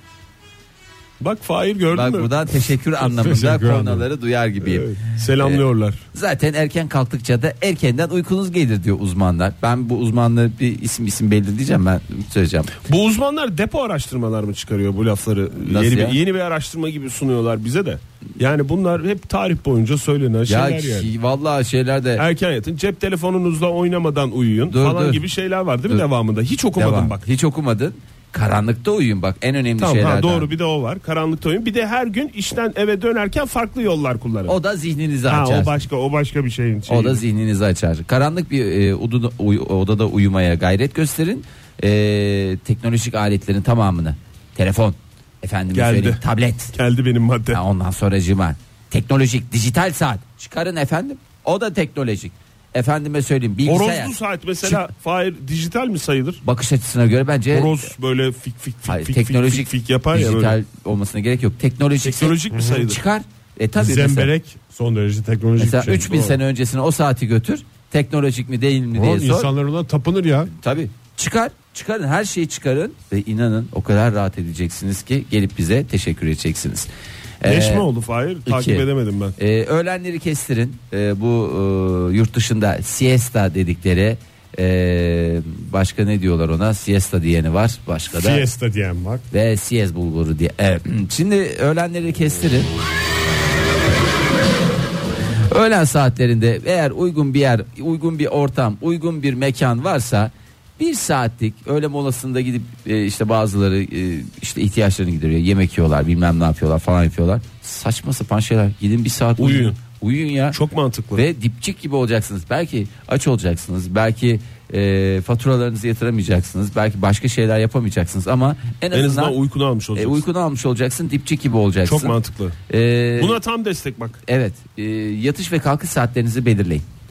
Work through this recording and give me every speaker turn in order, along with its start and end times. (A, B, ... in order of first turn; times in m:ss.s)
0:01.2-0:02.3 A
0:01.9-0:12.8 B
0:03.0-0:04.1 C
0:04.6-0:06.0 A
0:12.8-0:21.1 A
0:15.6-0:16.2 B
0:20.5-0:22.2 B
0:22.2-0:27.2 A
0:24.7-0:25.2 B
0:26.8-0:30.5 B
0:29.8-0:34.5 A
0:34.4-0:35.7 B
0:35.3-0:37.2 A
0:36.9-0:46.7 B
0:45.7-0:46.2 A
0:46.7-0:47.6 A
0:47.5-0:54.9 B
0:53.6-0:56.4 A
0:56.4-0:57.9 B
0:57.5-1:00.6 A
0:58.8-1:04.3 B
1:02.0-1:03.0 A
1:02.5-1:02.8 C
1:03.8-1:06.4 C
1:05.6-1:09.5 B
1:08.9-1:10.5 C
1:10.5-1:16.9 B
1:17.4-1:17.9 B
1:17.4-1:19.4 A
1:18.4-1:18.8 B
1:19.4-1:28.4 B
1:28.1-1:29.2 C
1:29.3-1:32.7 B
1:35.5-1:50.6 B
1:49.4-1:49.8 A
1:50.5-1:51.2 A
1:51.1-1:59.4 B
1:58.9-2:00.2 A
2:00.0-2:02.1 B
2:01.8-2:02.6 A
2:02.7-2:03.4 B
2:03.2-2:04.2 A
2:04.2-2:06.8 B